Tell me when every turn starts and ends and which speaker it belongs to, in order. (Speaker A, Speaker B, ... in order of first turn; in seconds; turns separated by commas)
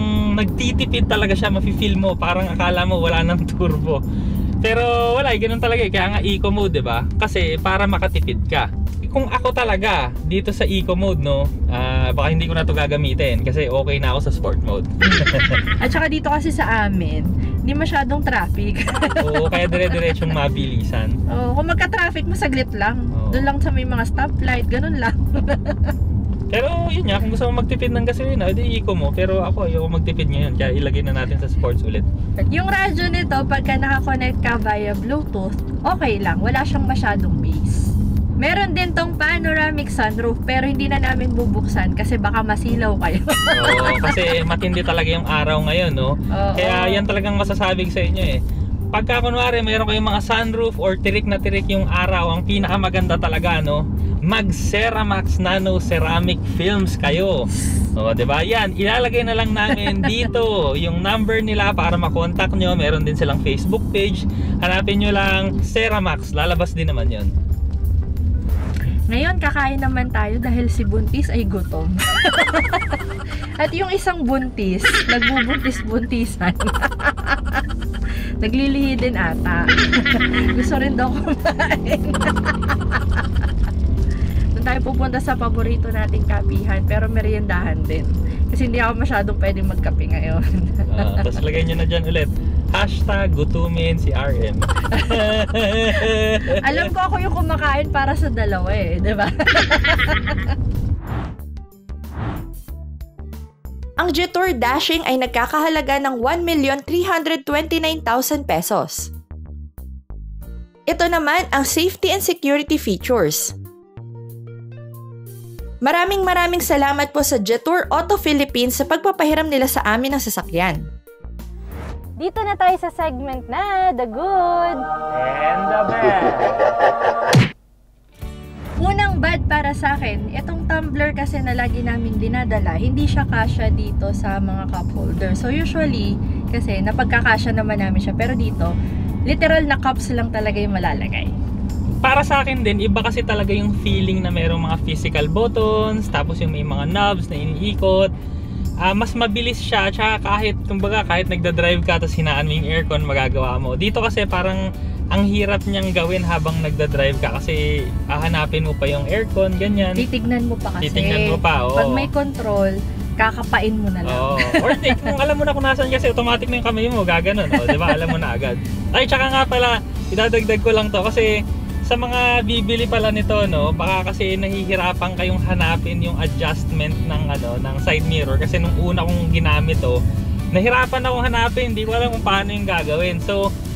Speaker A: 0.3-4.0, Speaker A: 4.6-15.6, Speaker B: 15.0-20.0, Speaker A: 19.2-21.2, Speaker B: 21.3-25.9, Speaker A: 23.1-23.5, Speaker A: 26.5-32.1, Speaker B: 32.4-44.2, Speaker A: 43.5-48.4, Speaker B: 46.3-47.1, Speaker A: 48.9-67.3, Speaker B: 69.1-73.0, Speaker B: 73.6-77.6, Speaker B: 78.4-83.2, Speaker B: 84.6-91.3, Speaker A: 90.9-96.9, Speaker B: 94.9-95.2, Speaker B: 96.6-100.5, Speaker C: 104.0-109.1, Speaker C: 110.9-113.5, Speaker C: 115.8-120.9, Speaker B: 122.2-124.8, Speaker A: 125.1-126.7, Speaker B: 128.8-138.7, Speaker B: 139.3-141.3, Speaker A: 142.0-148.1, Speaker A: 148.9-154.6, Speaker A: 155.1-160.0, Speaker B: 160.0-165.0, Speaker A: 160.8-162.1, Speaker A: 164.1-171.3, Speaker B: 167.6-167.9, Speaker A: 171.9-180.0, Speaker A: 180.5-183.4